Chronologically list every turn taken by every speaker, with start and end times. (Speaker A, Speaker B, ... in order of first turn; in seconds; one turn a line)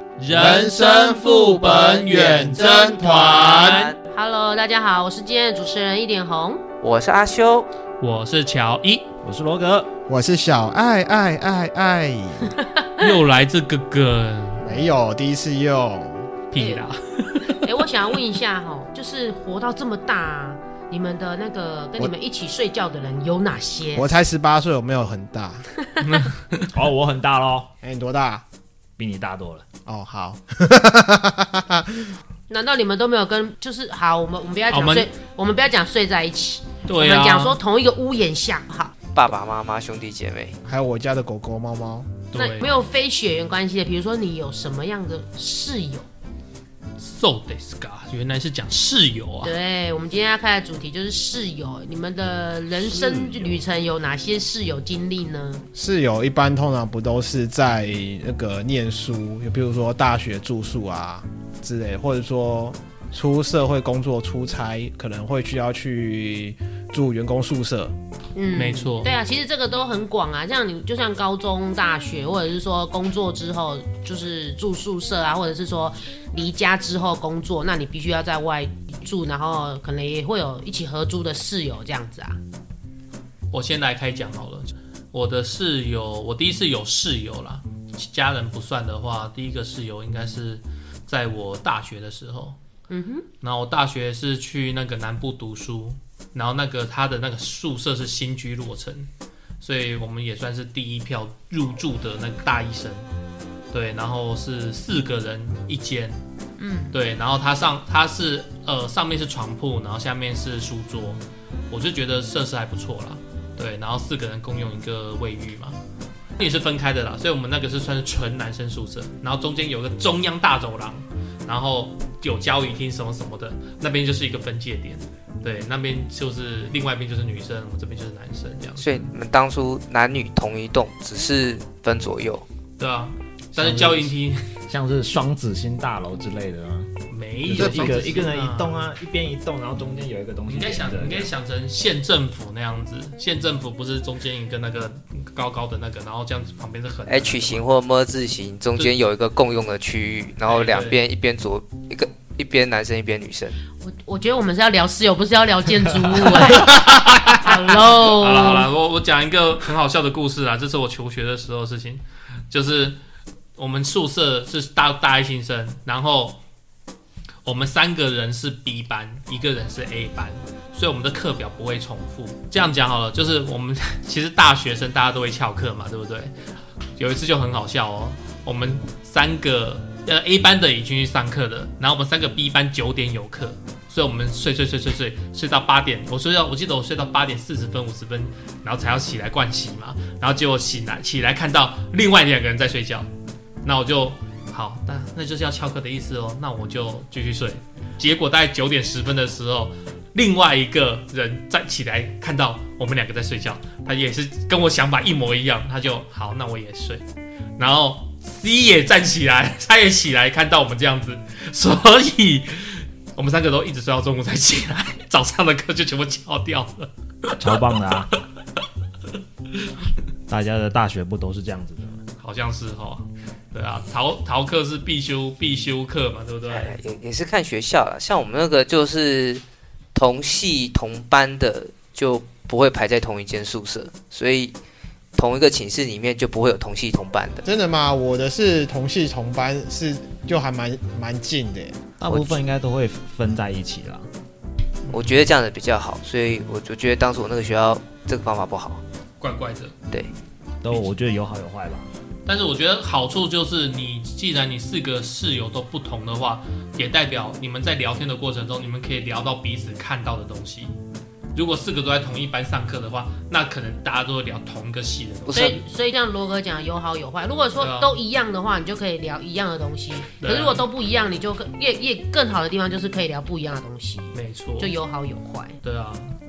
Speaker A: 0.2-3.9
Speaker B: 0.3-3.9
Speaker C: 4.1-6.6
Speaker D: 6.8-7.7
Speaker A: 8.0-9.1
Speaker E: 9.2-9.9
Speaker B: 10.1-12.5
Speaker C: 12.8-13.1
Speaker A: 13.0-14.7
Speaker B: 14.6-16.3
Speaker A: 16.5-17.6
Speaker C: 16.6-16.8
Speaker C: 17.5-24.1
Speaker B: 24.0-25.6
Speaker A: 26.0-26.7
Speaker E: 26.7-27.7
Speaker B: 27.8-28.4
Speaker E: 29.0-29.7
Speaker B: 29.9-32.2
Speaker C: 32.5-38.9
Speaker A: 34.7-35.1
Speaker A: 36.9-37.6
Speaker D: 39.1-40.5
Speaker B: 40.6-42.2
Speaker A: 42.3-42.7
Speaker C: 42.3-46.1
Speaker A: 47.0-49.5
Speaker C: 49.4-55.6
Speaker E: 52.8-53.6
Speaker B: 55.8-67.9
Speaker C: 68.4-82.4
Speaker A: 68.5-69.1
Speaker A: 83.5-92.6
Speaker C: 92.9-93.3
Speaker A: 93.4-99.1
Speaker A: 99.6-103.1
Speaker A: 103.7-106.2
Speaker C: 106.6-106.9
Speaker A: 106.9-115.8
Speaker A: 116.4-128.9
Speaker D: 128.8-132.4
Speaker A: 132.8-134.4
Speaker E: 133.5-134.2
Speaker E: 134.7-136.9
Speaker A: 137.1-138.8
Speaker E: 137.4-141.3
Speaker B: 137.6-138.1
Speaker A: 140.5-147.7
Speaker D: 147.1-153.6
Speaker A: 150.5-151.0
Speaker C: 153.8-158.7
Speaker A: 156.2-163.0
Speaker A: 163.6-166.4
Speaker A: 167.4-176.3
Speaker A: 177.0-193.1
Speaker A: 193.6-207.0
Speaker A: 207.6-217.5
Speaker E: 217.4-218.1
Speaker E: 220.3-222.0
Speaker A: 222.2-226.8
Speaker D: 226.5-229.4
Speaker D: 229.9-234.5
Speaker D: 235.2-237.4
Speaker B: 237.4-241.8
Speaker E: 242.0-244.1
Speaker D: 242.1-242.4
Speaker A: 244.9-245.2
Speaker D: 244.9-248.8
Speaker A: 249.2-249.8
Speaker E: 250.6-251.9
Speaker A: 252.3-260.7
Speaker A: 261.4-265.6
Speaker D: 265.3-265.6
Speaker C: 265.3-275.6
Speaker A: 267.6-268.0
Speaker A: 270.2-270.6
Speaker A: 274.1-274.8
Speaker A: 275.6-276.2